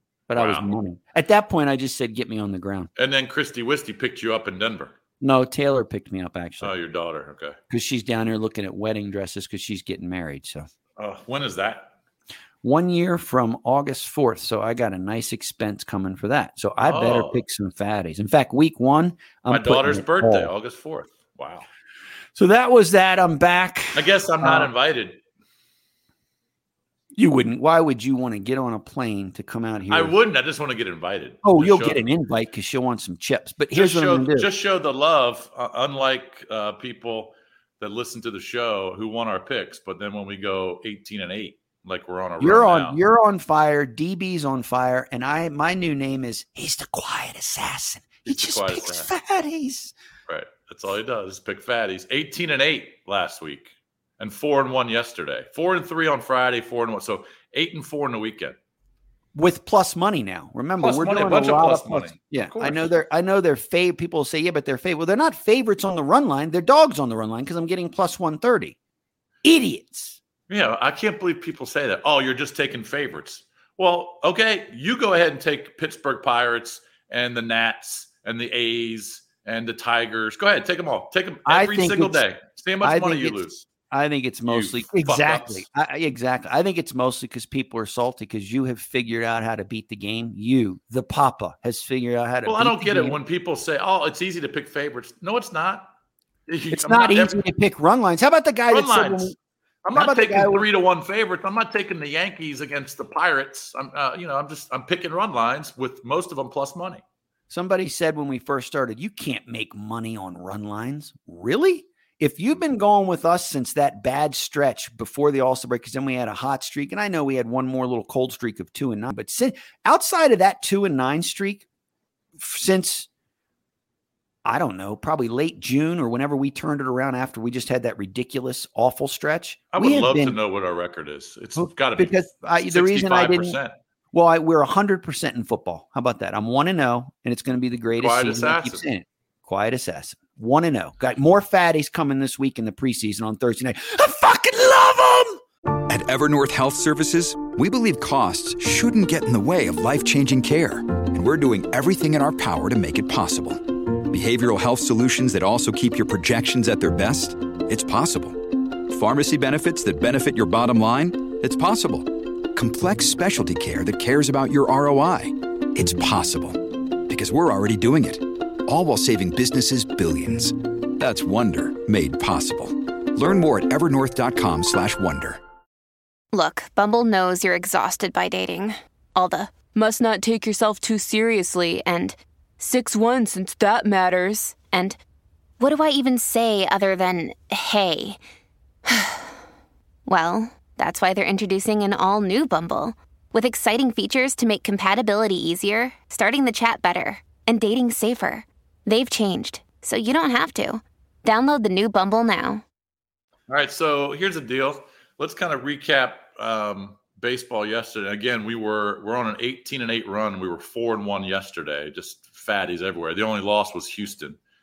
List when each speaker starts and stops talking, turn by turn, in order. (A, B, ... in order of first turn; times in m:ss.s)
0:00.3-0:02.9 A
0:00.4-0:00.7 B
0:03.0-0:05.0 B
0:05.2-0:06.7 A
0:06.6-0:07.6 B
0:07.7-0:10.7 A
0:11.0-0:11.9 B
0:12.6-0:20.5 A
0:16.8-0:17.4 B
0:19.5-0:21.7 B
0:22.4-0:24.7 A
0:24.0-0:25.2 B
0:27.2-0:30.1 A
0:29.9-0:32.0 B
0:31.4-0:34.5 A
0:33.7-0:43.0 B
0:42.4-0:49.9 A
0:48.3-0:49.1 B
0:50.3-0:58.6 B
0:59.4-1:08.8 A
1:00.8-1:03.0 B
1:09.4-1:10.2 A
1:10.5-1:23.7 B
1:21.5-1:22.2 A
1:22.8-1:33.2 A
1:24.5-1:25.7 B
1:32.4-1:35.9 B
1:36.5-1:37.4 B
1:36.7-1:39.4 A
1:38.7-1:47.0 B
1:39.9-1:40.7 A
1:47.5-2:01.6 A
2:02.4-2:03.1 A
2:04.4-2:10.4 A
2:09.7-2:13.8 B
2:11.6-2:13.6 A
2:14.1-2:25.4 A
2:18.0-2:18.8 B
2:25.8-2:55.4 C
2:56.3-3:05.0 D
3:05.6-3:08.2 D
3:08.9-3:09.3 D
3:10.1-3:22.6 D
3:23.5-3:34.4 B